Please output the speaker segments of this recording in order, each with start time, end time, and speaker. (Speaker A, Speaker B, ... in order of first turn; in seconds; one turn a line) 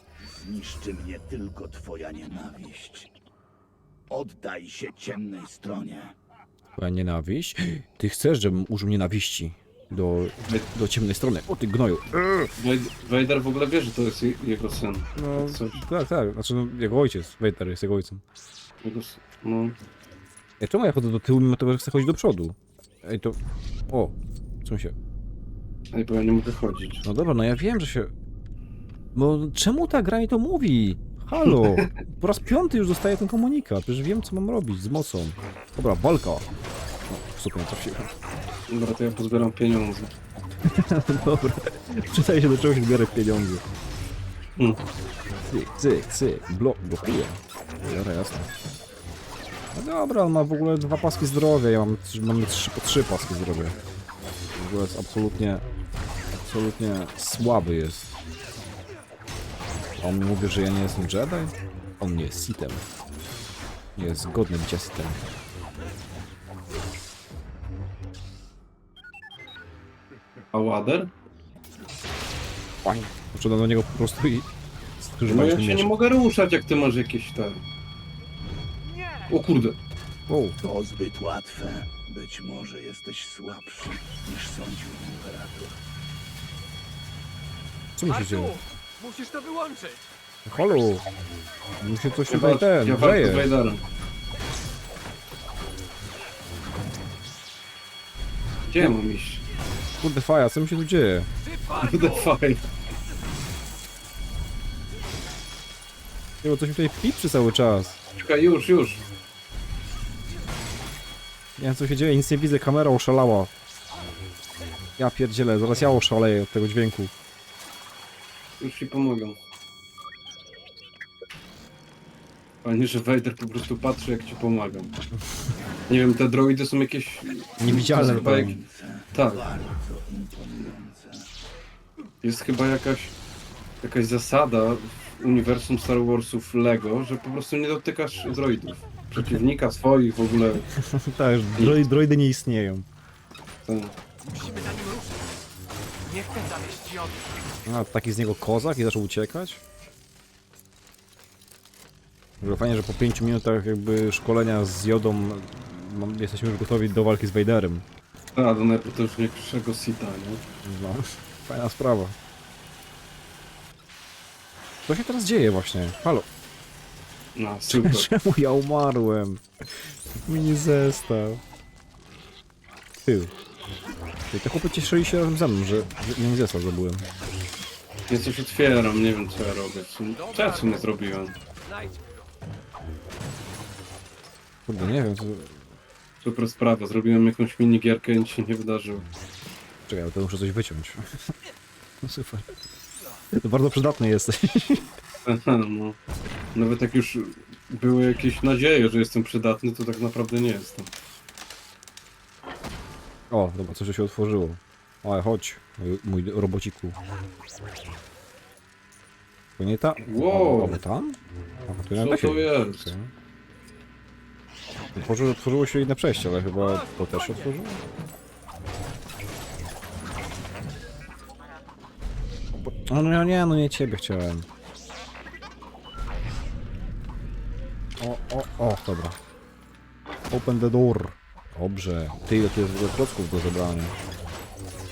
Speaker A: 0.2-3.1
Speaker A: 4.1-6.1
Speaker B: 6.7-12.5
Speaker C: 10.4-10.7
Speaker C: 12.6-15.8
Speaker B: 15.1-18.2
Speaker C: 18.8-19.8
Speaker B: 20.6-23.4
Speaker B: 23.9-24.9
Speaker C: 25.9-27.0
Speaker B: 27.0-28.1
Speaker B: 29.1-36.5
Speaker C: 31.4-31.9
Speaker B: 37.1-38.1
Speaker C: 38.7-40.1
Speaker B: 40.6-43.6
Speaker C: 44.6-44.8
Speaker B: 45.5-48.5
Speaker B: 49.7-53.8
Speaker B: 54.5-55.6
Speaker B: 56.4-58.1
Speaker B: 60.0-62.9
Speaker B: 64.0-65.2
Speaker C: 70.5-71.1
Speaker B: 72.8-74.5
Speaker B: 75.0-75.9
Speaker C: 75.3-77.6
Speaker C: 79.3-79.8
Speaker B: 80.3-80.6
Speaker A: 80.6-85.8
Speaker B: 88.0-88.6
Speaker D: 88.0-90.0
Speaker B: 90.5-91.0
Speaker B: 91.8-93.5
Speaker C: 92.3-93.8
Speaker C: 98.7-99.4
Speaker B: 100.0-101.3
Speaker D: 101.5-102.1
Speaker C: 101.7-102.6
Speaker B: 106.4-108.0
Speaker C: 108.2-109.0
Speaker B: 111.6-113.5
Speaker B: 115.0-117.1
Speaker C: 118.6-119.4
Speaker C: 122.6-125.0
Speaker C: 125.9-128.6
Speaker B: 127.6-128.6
Speaker A: 127.6-131.3
Speaker C: 129.1-129.4
Speaker C: 132.2-133.1
Speaker C: 133.8-140.7
Speaker B: 139.2-139.4
Speaker B: 140.7-142.8
Speaker C: 141.6-141.9
Speaker C: 143.6-143.9
Speaker D: 144.2-145.2
Speaker D: 146.0-147.4
Speaker B: 147.7-149.6
Speaker B: 152.4-157.8
Speaker C: 158.3-160.4
Speaker B: 160.6-162.2
Speaker B: 164.8-166.3
Speaker C: 167.3-168.1
Speaker B: 167.7-171.4
Speaker B: 173.0-173.3
Speaker B: 174.3-177.1
Speaker C: 178.1-181.3
Speaker D: 180.3-180.6
Speaker D: 181.7-182.1
Speaker B: 184.7-185.6
Speaker C: 186.2-189.1
Speaker B: 189.9-191.0
Speaker B: 192.0-192.6
Speaker B: 193.3-194.9
Speaker C: 195.2-196.0
Speaker C: 196.5-200.9
Speaker B: 203.3-207.0
Speaker B: 209.6-213.1
Speaker C: 210.0-210.8
Speaker C: 211.9-212.9
Speaker B: 214.9-217.8
Speaker B: 222.6-224.4
Speaker B: 228.0-229.2
Speaker B: 230.3-233.9